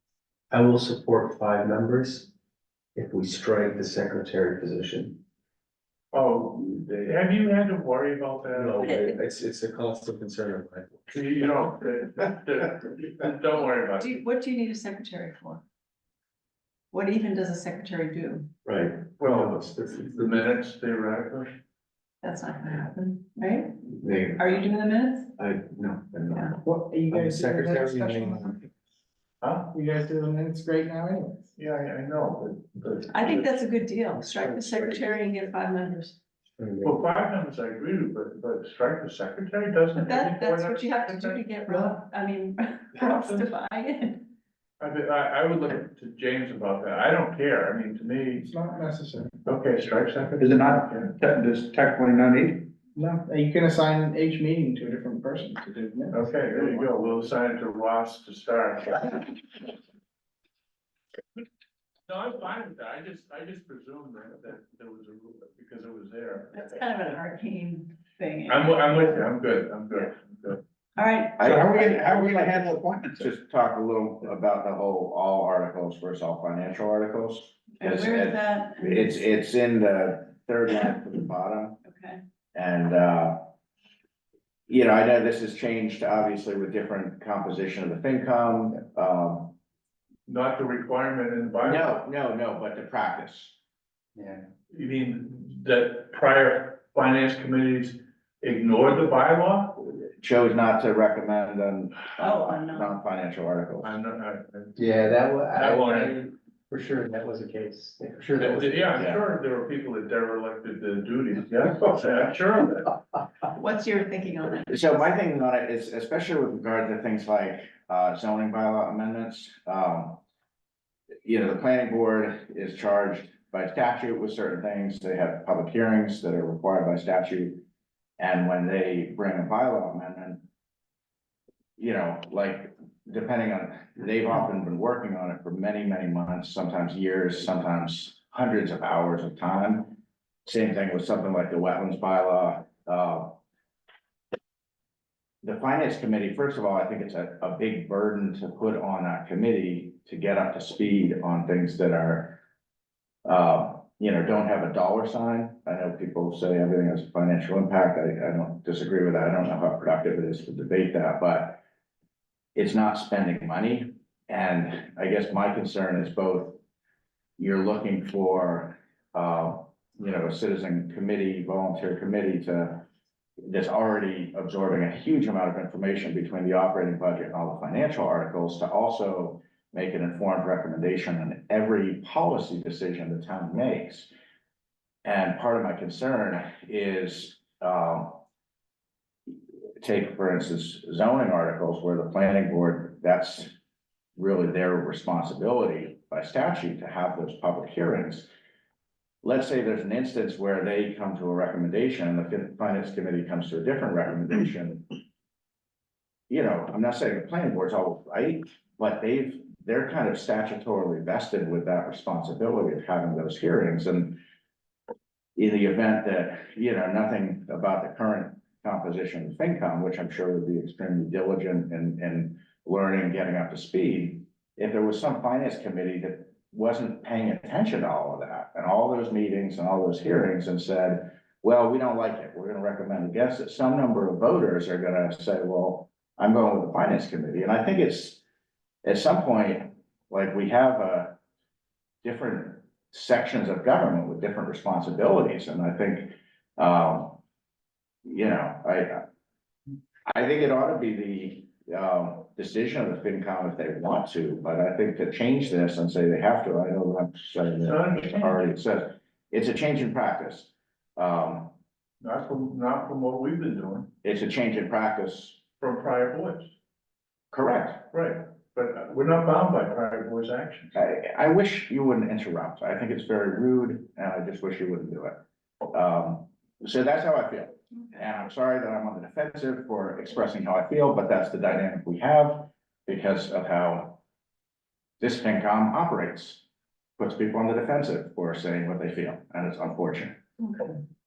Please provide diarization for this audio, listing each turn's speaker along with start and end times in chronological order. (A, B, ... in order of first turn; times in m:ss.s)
0:00.5-0:02.3 A
0:02.9-0:05.2 A
0:06.1-0:08.9 B
0:08.5-0:11.1 A
0:11.1-0:14.2 B
0:14.0-0:15.6 C
0:16.9-0:18.5 C
0:18.6-0:20.5 A
0:19.2-0:21.6 B
0:22.2-0:25.3 C
0:24.0-0:24.7 A
0:25.4-0:26.6 A
0:26.3-0:26.6 C
0:26.6-0:28.6 D
0:27.1-0:28.6 A
0:29.4-0:29.7 B
0:29.7-0:31.4 D
0:31.6-0:33.6 B
0:33.1-0:36.2 C
0:34.7-0:34.9 A
0:34.9-0:35.4 D
0:36.6-0:37.0 A
0:36.8-0:41.9 B
0:39.9-0:44.3 C
0:43.0-0:43.5 B
0:44.8-0:48.5 B
0:48.4-0:49.4 D
0:49.4-0:51.1 B
0:50.4-0:52.7 E
0:52.9-0:56.9 D
0:56.1-0:59.3 B
1:02.1-1:06.6 B
1:06.5-1:09.1 C
1:08.5-1:10.6 B
1:11.0-1:11.5 C
1:11.4-1:21.8 F
1:11.4-1:13.2 E
1:17.8-1:19.2 C
1:21.8-1:22.2 C
1:22.5-1:23.5 F
1:24.7-1:29.5 F
1:30.3-1:31.9 B
1:31.6-1:33.6 F
1:34.1-1:34.4 A
1:34.7-1:39.8 B
1:39.8-1:44.0 F
1:42.2-1:42.9 C
1:43.8-1:44.8 B
1:44.8-1:48.9 A
1:45.5-1:46.3 B
1:48.4-1:53.0 B
1:49.0-1:49.2 F
1:53.5-1:55.2 C
1:54.7-2:00.2 F
2:01.2-2:07.6 F
2:08.2-2:10.4 F
2:11.8-2:23.4 F
2:25.4-2:32.4 F
2:33.2-2:41.6 F
2:42.5-2:46.6 F
2:47.4-2:52.9 F
2:53.4-3:04.1 F
3:05.0-3:08.2 F
3:09.3-3:13.5 F
3:14.2-3:18.3 F
3:19.2-3:24.9 F
3:26.3-3:34.2 F
3:35.4-3:58.2 F
3:58.8-4:01.2 F
4:02.0-4:07.2 F
4:08.0-4:09.0 F
4:10.1-4:21.5 F
4:17.6-4:18.4 B
4:22.0-4:23.9 B
4:24.0-4:25.4 F
4:25.6-4:26.5 B
4:27.3-4:27.9 F
4:27.9-4:30.7 B
4:30.7-4:44.0 F
4:45.0-4:46.4 F
4:47.0-4:50.2 F